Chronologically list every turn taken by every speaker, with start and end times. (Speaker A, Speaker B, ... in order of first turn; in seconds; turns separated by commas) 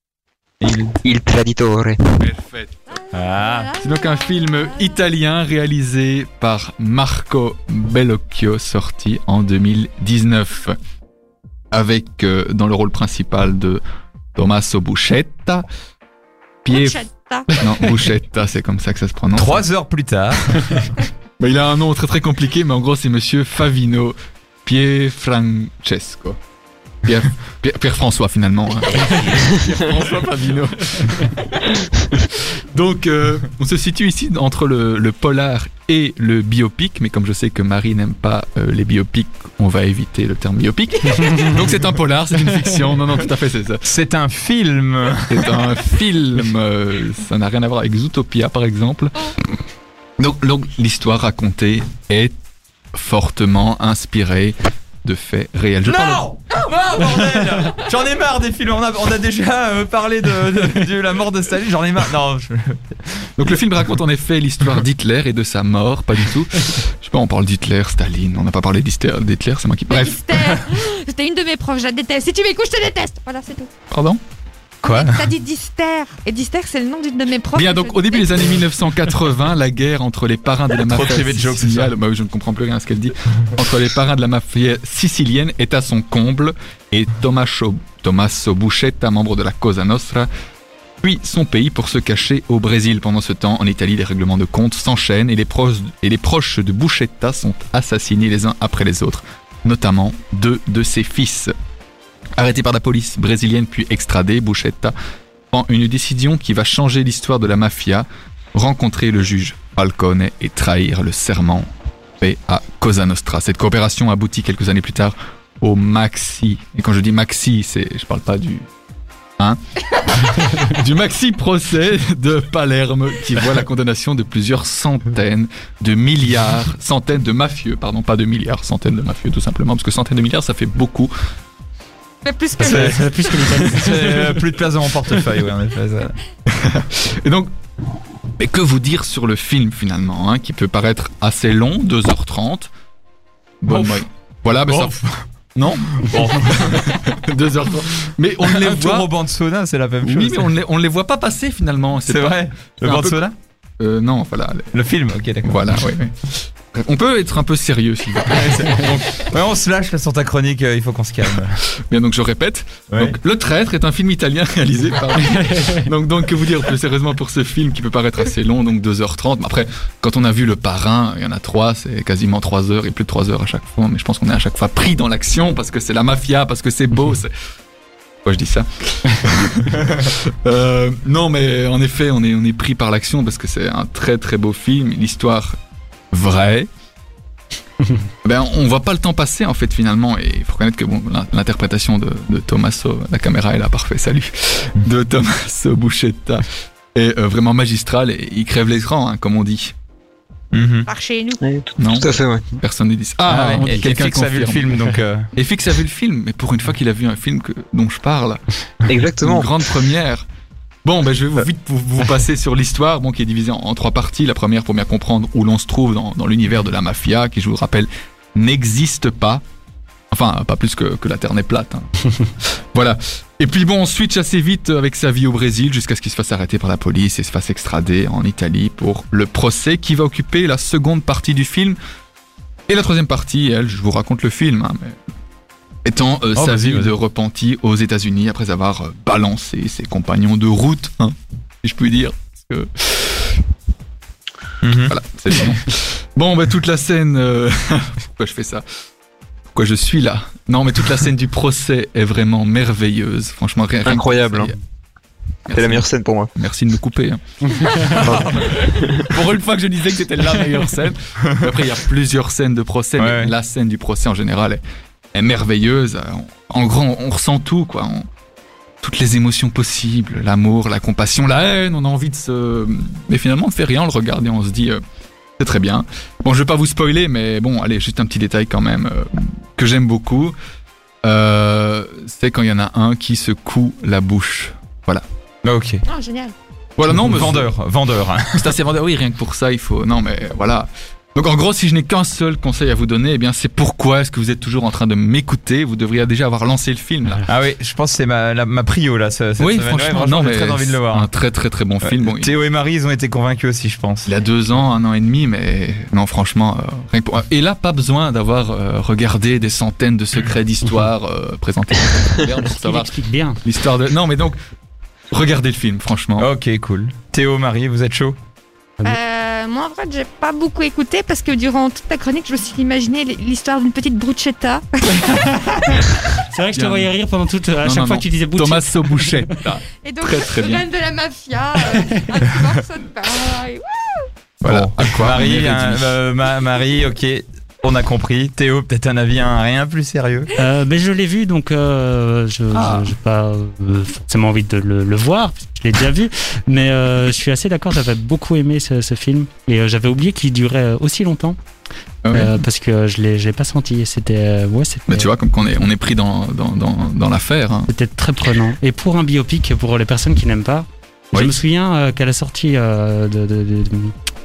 Speaker A: 0.6-1.0, Speaker B: 1.0-2.0, Speaker C: 2.2-3.0, Speaker A: 3.1-3.8, Speaker D: 3.4-4.7, Speaker C: 3.8-10.8, Speaker C: 11.7-13.8, Speaker C: 14.3-15.7, Speaker C: 16.6-17.0, Speaker D: 16.7-17.5, Speaker C: 17.6-19.6, Speaker A: 19.4-20.9, Speaker C: 21.4-26.4, Speaker C: 27.0-43.8, Speaker A: 43.8-45.6, Speaker C: 45.3-49.3, Speaker C: 50.2-52.3, Speaker C: 52.9-56.2, Speaker A: 55.8-63.3, Speaker C: 63.4-70.6, Speaker D: 69.9-73.7, Speaker C: 73.9-74.2, Speaker D: 74.8-78.5, Speaker A: 74.8-75.3, Speaker C: 77.5-90.3, Speaker A: 80.7-81.9, Speaker C: 91.0-101.5, Speaker C: 102.4-104.9, Speaker C: 105.5-111.7, Speaker C: 112.2-118.7, Speaker C: 119.4-131.1, Speaker D: 132.2-133.0, Speaker E: 132.6-134.2, Speaker A: 132.6-133.0, Speaker A: 133.6-136.2, Speaker C: 136.5-137.5, Speaker C: 138.4-142.7, Speaker C: 143.6-144.9, Speaker A: 143.7-144.0, Speaker A: 144.7-145.2, Speaker C: 145.6-149.1, Speaker A: 145.9-146.9, Speaker A: 148.4-150.5, Speaker C: 150.0-153.2, Speaker A: 152.0-153.3, Speaker C: 153.8-154.7, Speaker A: 154.7-155.8, Speaker C: 155.4-159.0, Speaker A: 158.3-161.6, Speaker C: 161.9-177.3, Speaker A: 162.9-163.2, Speaker C: 178.2-185.6, Speaker C: 186.1-186.7, Speaker C: 188.2-199.7, Speaker A: 200.5-200.9, Speaker D: 200.9-201.4, Speaker B: 201.4-202.4, Speaker C: 201.8-208.4, Speaker A: 203.3-205.3, Speaker B: 208.9-209.5, Speaker C: 209.2-210.2, Speaker C: 210.8-219.4, Speaker C: 220.1-221.9, Speaker C: 222.7-231.8, Speaker C: 232.7-235.0, Speaker C: 235.8-243.3, Speaker A: 236.3-236.9, Speaker A: 244.6-244.9, Speaker C: 244.8-248.6, Speaker C: 249.5-254.6, Speaker B: 253.8-254.5, Speaker C: 255.5-257.2, Speaker B: 255.5-256.3, Speaker A: 257.6-258.5, Speaker C: 257.9-264.6, Speaker B: 257.9-259.1, Speaker A: 263.0-263.3, Speaker C: 265.1-268.1, Speaker C: 268.8-274.8, Speaker C: 275.4-280.4, Speaker C: 281.0-285.0, Speaker A: 285.4-285.8, Speaker D: 285.8-286.3, Speaker C: 286.8-287.5, Speaker A: 286.8-288.5, Speaker C: 288.3-297.3, Speaker A: 297.3-301.1, Speaker C: 299.4-302.3, Speaker A: 301.8-304.1, Speaker C: 304.0-314.4, Speaker E: 312.5-313.4, Speaker C: 315.1-316.3, Speaker A: 316.2-318.2, Speaker D: 318.8-325.2, Speaker E: 325.1-329.4, Speaker C: 326.5-326.9, Speaker C: 327.6-330.6, Speaker D: 329.8-334.1, Speaker C: 334.4-336.0, Speaker A: 334.4-340.3, Speaker E: 340.4-351.4, Speaker C: 352.0-352.3, Speaker E: 352.1-355.6, Speaker C: 354.9-357.7, Speaker E: 357.7-363.9